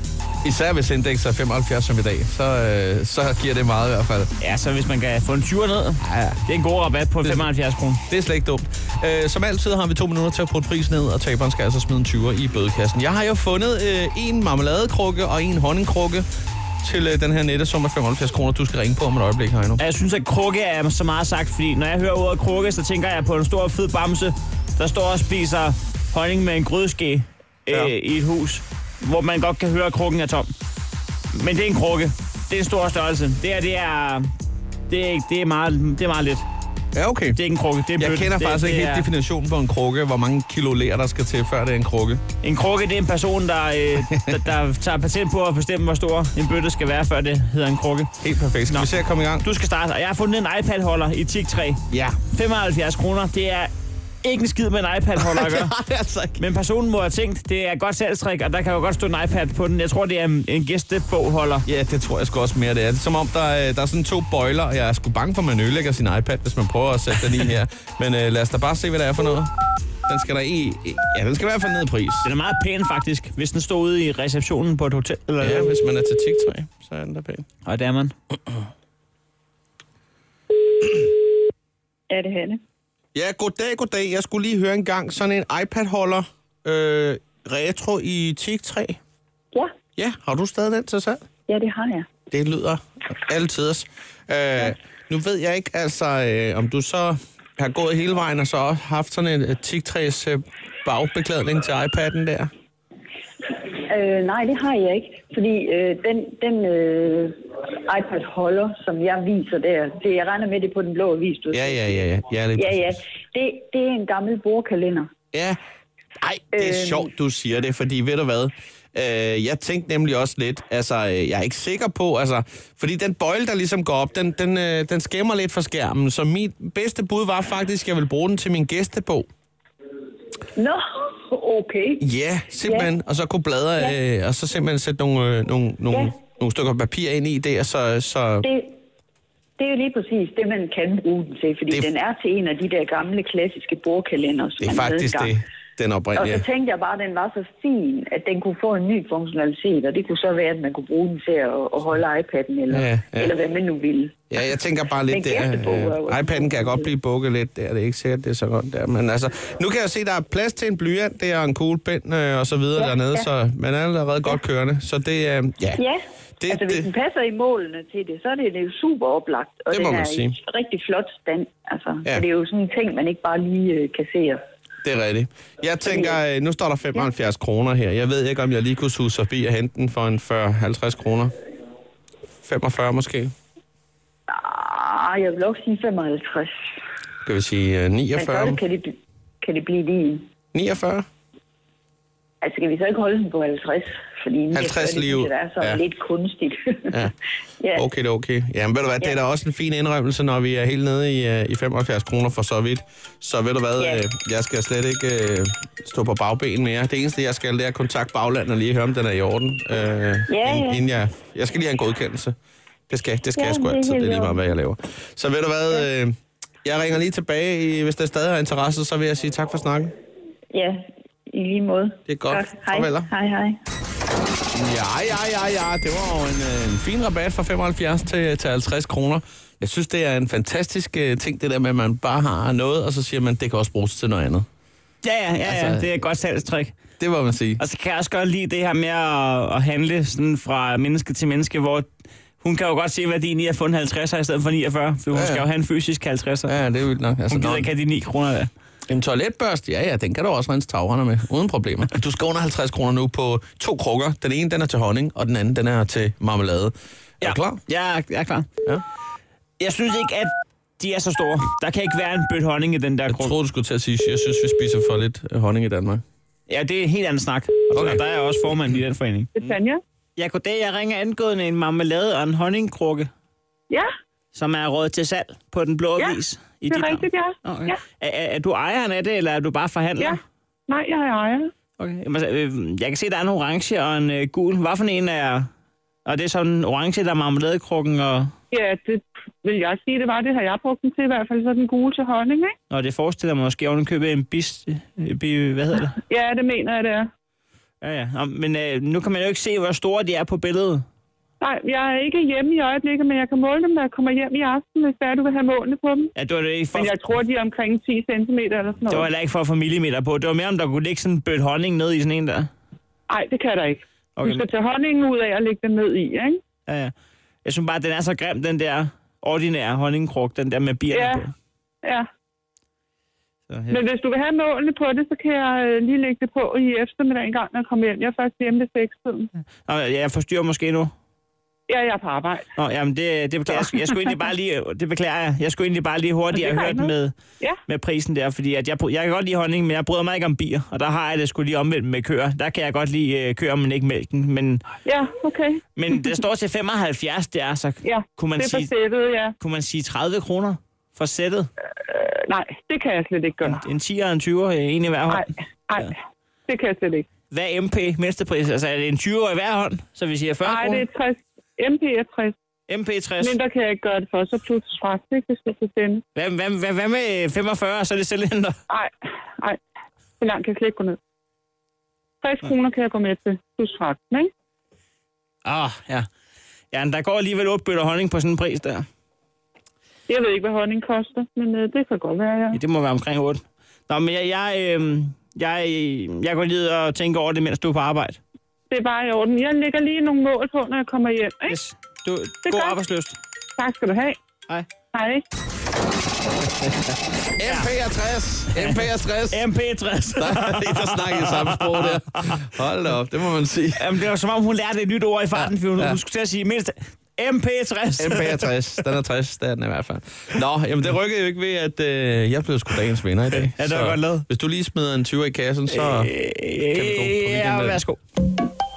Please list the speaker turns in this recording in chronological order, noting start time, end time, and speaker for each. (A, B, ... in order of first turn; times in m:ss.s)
0:00.4-0:04.3 A
0:04.4-0:08.0 B
0:06.0-0:06.4 A
0:08.1-0:16.2 A
0:16.8-0:19.8 A
0:19.8-0:30.5 B
0:31.3-0:34.2 B
0:34.9-0:36.4 B
0:36.9-0:37.4 A
0:37.4-0:39.1 B
0:38.0-0:42.2 A
0:42.4-0:48.1 B
0:44.1-0:44.4 A
0:48.2-0:49.4 A
0:48.7-0:53.7 B
0:51.9-0:52.2 A
0:54.2-0:55.7 B
0:55.2-0:56.4 A
0:56.4-1:01.6 B
1:01.6-1:09.5 A
1:10.1-1:12.3 A
1:12.2-1:15.8 B
1:15.4-1:17.4 A
1:17.6-1:18.1 B
1:22.1-1:22.6 C
1:23.1-1:29.0 A
1:30.0-1:31.2 A
1:31.5-1:32.1 C
1:32.3-1:42.5 A
1:43.9-1:47.3 C
1:47.9-1:55.1 C
1:51.5-1:53.0 A
1:56.2-2:09.3 A
1:56.5-1:57.1 C
2:10.5-2:12.0 C
2:12.0-2:18.5 A
2:12.6-2:12.9 C
2:18.4-2:18.7 C
2:19.6-2:25.3 C
2:24.6-2:26.4 A
2:26.2-2:34.2 C
2:32.7-2:33.3 A
2:34.3-2:45.8 A
2:35.1-2:36.9 C
2:42.8-2:43.2 C
2:45.8-2:54.4 C
2:46.4-2:46.9 A
2:49.7-2:50.4 A
2:54.8-3:01.3 A
2:55.8-2:56.2 C
3:02.4-3:03.3 A
3:04.3-3:06.5 C
3:07.2-3:08.6 A
3:08.2-3:10.2 C
3:10.5-3:11.0 A
3:12.4-3:17.0 C
3:14.5-3:15.8 A
3:17.6-3:17.8 C
3:17.7-3:32.3 A
3:30.3-3:30.8 C
3:32.9-3:36.1 A
3:33.4-3:34.4 C
3:36.6-3:39.9 A
3:40.5-3:43.6 C
3:42.1-3:43.1 A
3:44.5-3:54.4 A
3:55.0-3:56.7 B
3:55.4-3:56.0 A
3:57.0-3:57.6 A
3:57.6-4:01.9 B
4:02.4-4:06.5 B
4:05.1-4:05.5 A
4:06.5-4:07.7 A
4:07.3-4:08.5 B
4:08.9-4:17.6 A
4:17.2-4:18.5 B
4:19.6-4:23.4 B
4:23.1-4:26.0 A
4:26.5-4:29.3 B
4:27.7-4:28.0 A
4:29.4-4:29.8 D
4:30.2-4:33.1 B
4:34.3-4:40.2 B
4:36.7-4:37.8 D
4:40.0-4:41.5 D
4:41.8-4:45.5 B
4:46.0-4:48.3 B
4:48.5-4:52.5 D
4:52.7-4:56.0 B
4:56.1-4:57.1 D
4:57.8-5:00.8 B
5:01.4-5:06.1 D
5:06.1-5:07.2 B
5:06.7-5:09.1 D
5:08.9-5:12.5 B
5:13.1-5:16.4 D
5:14.2-5:14.5 B
5:16.7-5:16.9 B
5:17.4-5:21.3 B
5:20.9-5:21.2 D
5:23.5-5:23.8 B
5:23.7-5:29.3 D
5:29.6-5:30.9 B
5:31.7-5:32.4 D
5:32.6-5:37.1 B
5:36.3-5:37.6 D
5:37.7-5:44.6 B
5:44.8-5:45.6 D
5:45.8-5:48.7 B
5:47.8-5:49.3 D
5:49.4-5:51.5 B
5:51.8-5:53.6 D
5:53.5-5:55.3 B
5:55.1-5:55.9 D
5:56.5-5:57.0 D
5:57.3-6:00.8 B
6:00.4-6:02.3 D
6:02.7-6:03.4 B
6:03.2-6:06.0 D
6:06.1-6:08.6 B
6:08.7-6:09.6 D
6:10.2-6:11.0 D
6:12.2-6:14.3 D
6:15.4-6:16.1 B
6:16.7-6:18.8 B
6:20.1-6:22.6 D
6:22.5-6:28.2 B
6:28.7-6:31.6 D
6:31.5-6:33.2 B
6:32.4-6:32.8 D
6:33.6-6:34.2 D
6:34.9-6:35.2 D
6:37.4-6:39.5 A
6:37.4-6:37.7 B
6:38.5-6:42.4 B
6:40.2-6:44.0 A
6:43.8-6:48.5 B
6:45.4-6:46.0 A
6:48.0-6:56.1 A
6:53.3-6:54.2 B
6:55.7-6:58.0 B
6:56.6-6:57.8 A